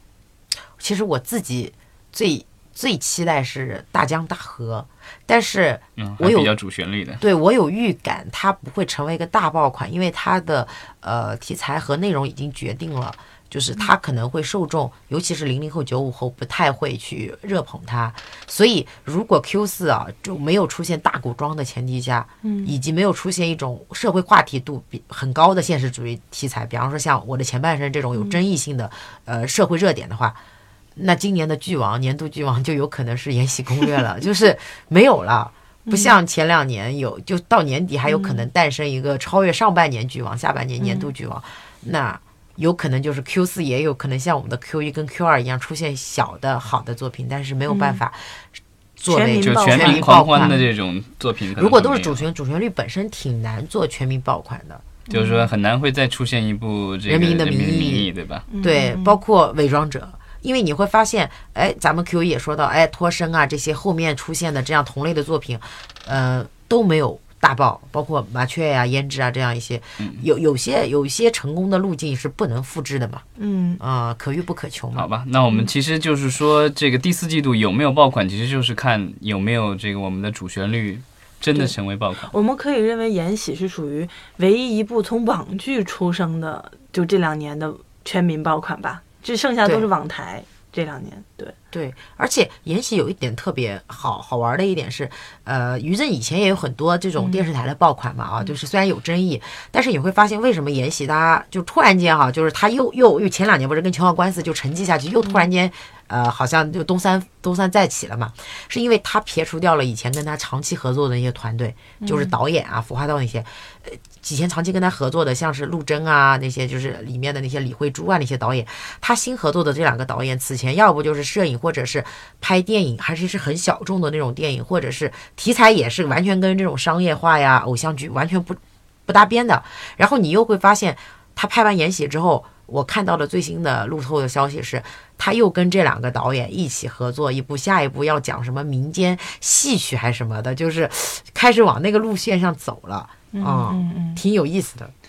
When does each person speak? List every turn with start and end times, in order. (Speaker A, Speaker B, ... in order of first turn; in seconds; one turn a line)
Speaker A: 0.8-6.5
Speaker B: 6.0-7.2
Speaker A: 7.2-30.4
Speaker C: 22.4-22.8
Speaker C: 28.1-28.4
Speaker A: 31.0-48.5
Speaker C: 35.9-36.2
Speaker C: 38.0-38.5
Speaker C: 40.8-41.1
Speaker C: 47.7-48.0
Speaker A: 49.0-50.5
Speaker C: 49.1-50.7
Speaker B: 49.4-52.3
Speaker A: 51.6-54.8
Speaker C: 55.1-55.5
Speaker B: 55.1-58.5
Speaker A: 57.1-58.1
Speaker C: 58.5-59.2
Speaker A: 58.6-73.2
Speaker C: 73.4-73.8
Speaker A: 73.8-75.1
Speaker B: 74.9-82.3
Speaker C: 81.5-91.6
Speaker A: 91.7-144.9
Speaker C: 97.2-97.5
Speaker C: 105.2-105.5
Speaker C: 112.0-112.4
Speaker C: 143.3-144.2